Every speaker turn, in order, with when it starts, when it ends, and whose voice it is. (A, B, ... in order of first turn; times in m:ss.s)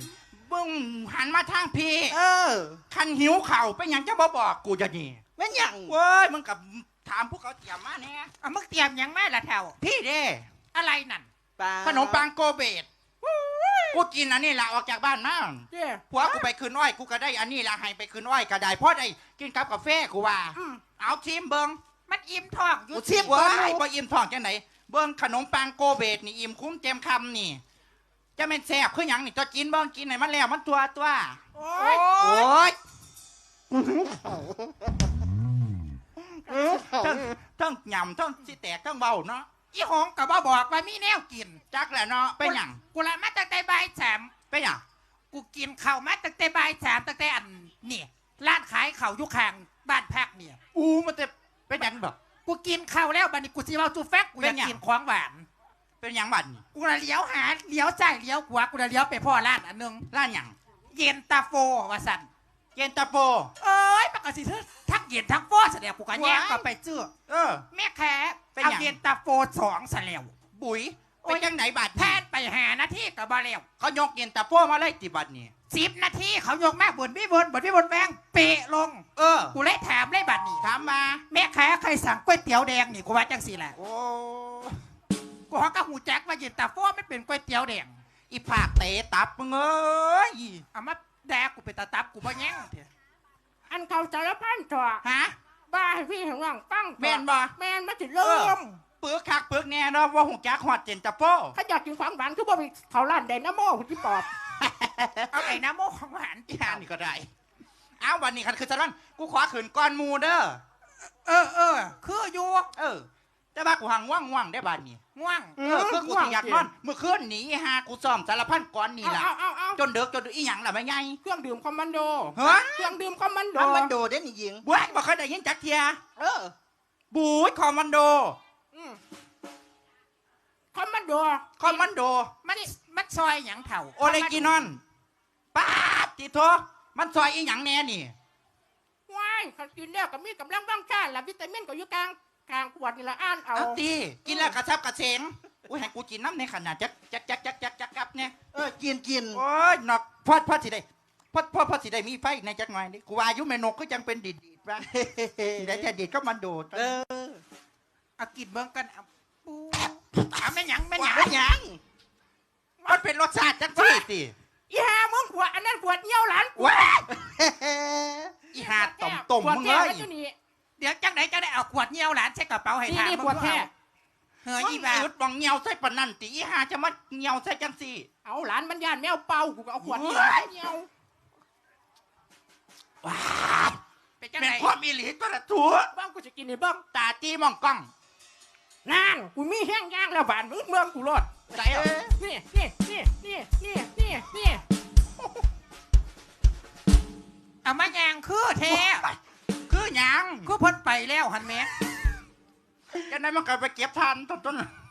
0:00.3-0:02.2 A
0:02.1-0:02.8 B
0:02.9-0:05.2 A
0:05.4-0:05.9 B
0:05.8-0:08.3 A
0:08.4-0:09.7 C
0:09.8-0:10.4 A
0:10.7-0:11.3 C
0:11.6-0:12.2 B
0:11.8-0:12.8 A
0:13.2-0:14.0 B
0:13.9-0:21.8 A
0:15.7-0:16.5 D
0:20.6-0:20.8 D
0:22.1-0:23.7 C
0:22.9-0:23.7 B
0:23.2-0:27.6 A
0:28.4-0:32.8 A
0:31.6-0:31.9 D
0:31.8-0:32.5 C
0:36.5-0:39.5 A
0:39.7-0:41.6 C
0:41.7-0:42.8 A
0:42.4-0:44.3 C
0:44.5-0:44.8 A
0:45.3-0:50.6 C
0:50.7-0:52.2 A
0:52.4-0:55.4 C
0:54.4-0:54.8 A
0:56.0-0:56.6 A
0:56.7-1:00.1 C
1:00.1-1:00.5 A
1:00.9-1:02.3 C
1:02.7-1:03.5 A
1:03.6-1:07.1 C
1:06.1-1:06.7 A
1:07.3-1:07.6 A
1:07.7-1:10.3 C
1:08.6-1:09.0 A
1:10.5-1:12.2 A
1:11.2-1:13.6 C
1:13.8-1:15.5 A
1:15.7-1:20.6 C
1:19.2-1:19.6 A
1:20.6-1:21.2 A
1:21.3-1:23.7 C
1:23.8-1:24.8 A
1:25.5-1:27.9 C
1:28.3-1:30.6 A
1:30.7-1:32.9 C
1:33.7-1:35.0 D
1:35.0-1:35.3 A
1:35.7-1:38.8 D
1:37.0-1:37.5 A
1:38.2-1:41.5 A
1:41.5-1:44.3 D
1:44.6-1:45.6 A
1:45.3-1:46.8 C
1:46.5-1:47.3 A
1:48.0-1:50.6 A
1:51.2-1:52.7 C
1:52.8-1:55.0 A
1:55.1-1:55.7 C
1:55.6-2:01.2 A
1:55.6-1:56.7 D
1:59.0-1:59.8 D
2:01.2-2:03.9 D
2:02.3-2:03.0 A
2:03.6-2:04.6 B
2:04.6-2:06.0 A
2:06.2-2:06.5 D
2:07.1-2:08.4 A
2:08.7-2:09.0 D
2:10.7-2:11.8 D
2:11.6-2:12.3 A
2:12.4-2:14.6 C
2:14.0-2:14.8 A
2:15.5-2:18.1 A
2:19.1-2:23.8 D
2:23.5-2:28.4 A
2:28.5-2:29.4 B
2:29.3-2:34.9 A
2:34.9-2:35.8 B
2:35.6-2:37.0 A
2:36.7-2:37.4 B
2:38.2-2:41.4 C
2:41.1-2:41.8 B
2:42.8-2:44.3 A
2:43.7-2:44.0 D
2:44.7-2:46.8 D
2:46.6-2:47.1 A
2:47.2-2:48.4 B
2:48.6-2:50.1 A
2:48.6-2:50.3 D
2:50.8-2:53.7 C
2:52.8-2:53.7 D
2:54.4-2:55.1 C
2:54.6-2:58.1 A
2:58.2-3:00.9 D
2:59.8-3:00.5 A
3:03.0-3:03.8 A
3:04.2-3:04.7 C
3:04.4-3:05.9 A
3:05.9-3:06.8 D
3:06.9-3:07.9 A
3:08.8-3:11.3 D
3:11.5-3:11.9 A
3:12.0-3:14.6 D
3:17.6-3:19.0 C
3:18.7-3:19.2 A
3:19.7-3:20.5 A
3:20.4-3:21.7 C
3:23.0-3:24.7 A